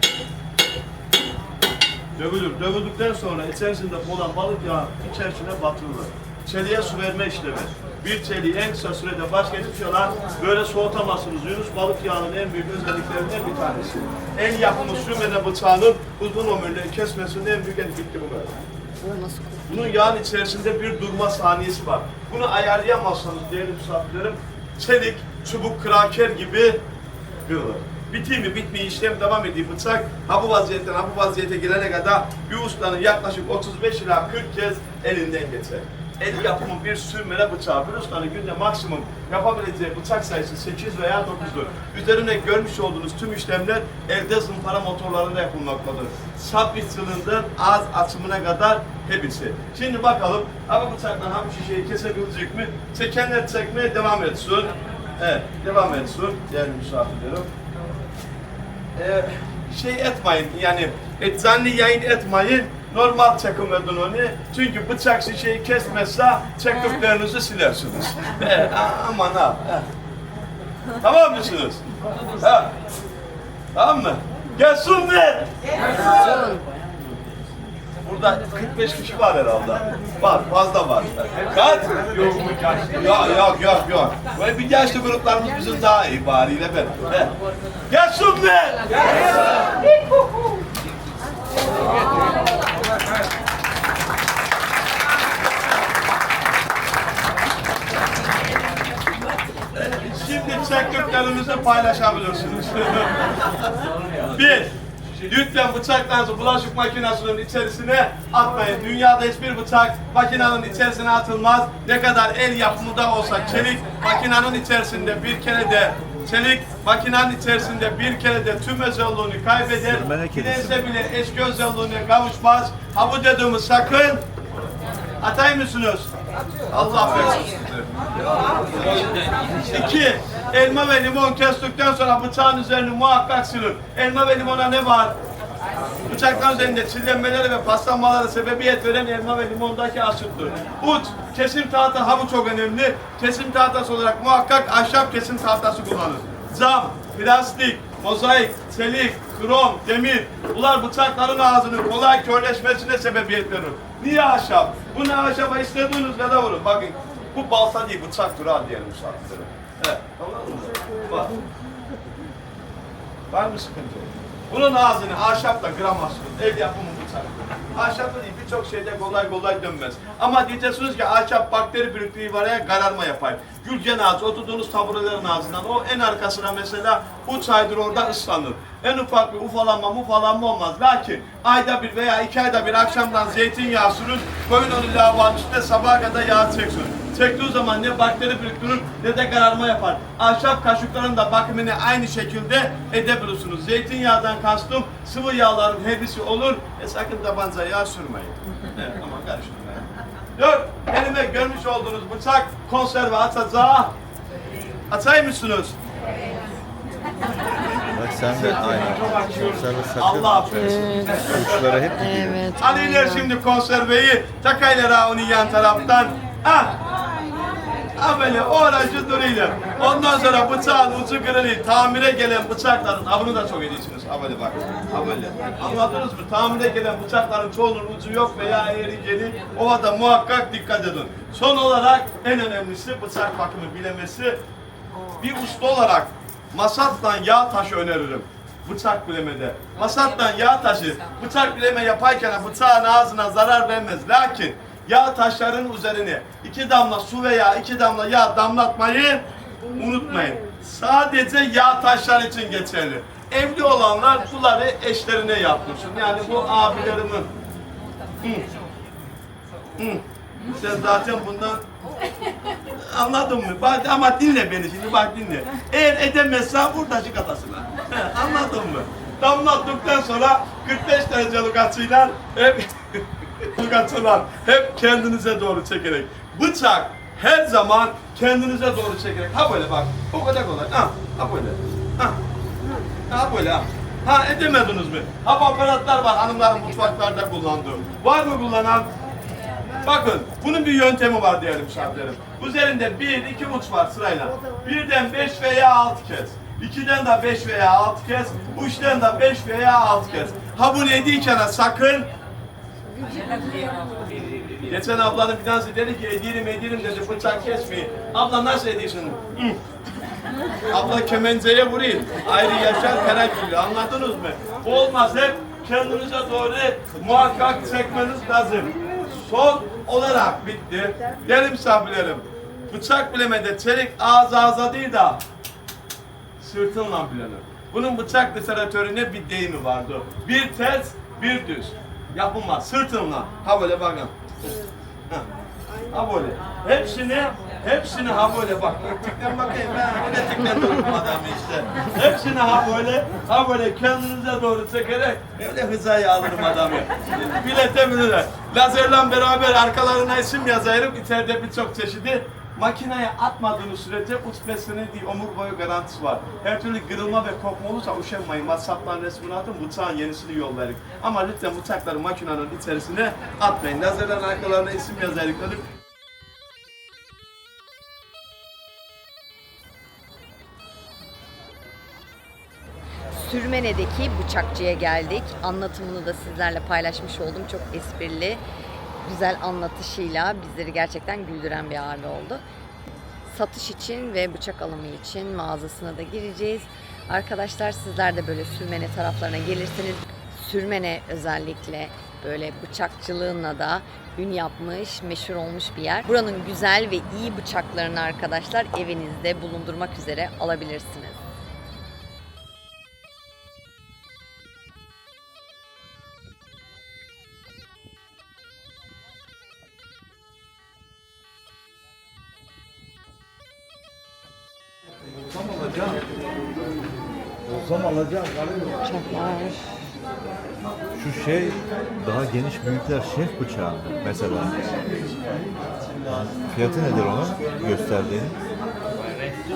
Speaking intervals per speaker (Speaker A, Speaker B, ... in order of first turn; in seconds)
Speaker A: 2.2-18.5, 19.7-26.8, 27.5-57.5, 59.0-69.9, 71.0-71.8, 72.4-72.7, 73.8-75.5, 78.0-87.3, 87.9-89.0, 99.8-103.7, 104.2-104.7, 105.2-124.2, 125.2-126.1, 126.7-127.9, 128.6-129.1, 129.7-135.2, 136.1-161.3, 163.3-203.9, 204.9-205.8, 208.3-211.9, 212.5-216.8, 218.0-234.4, 235.2-257.3, 259.8-261.6, 262.8-282.2, 283.1-288.9, 289.8-302.1, 304.6-309.6, 310.7-325.2, 326.4-334.1, 335.9-365.6
Speaker B: 19.0-19.9, 76.1-76.6, 210.7-211.2, 211.9-213.3, 373.1-378.4, 379.0-382.4, 383.3-401.2, 418.8-419.6, 426.7-427.0
Speaker C: 119.8-120.8, 207.9-212.5, 417.7-418.2, 420.9-424.6, 426.1-428.4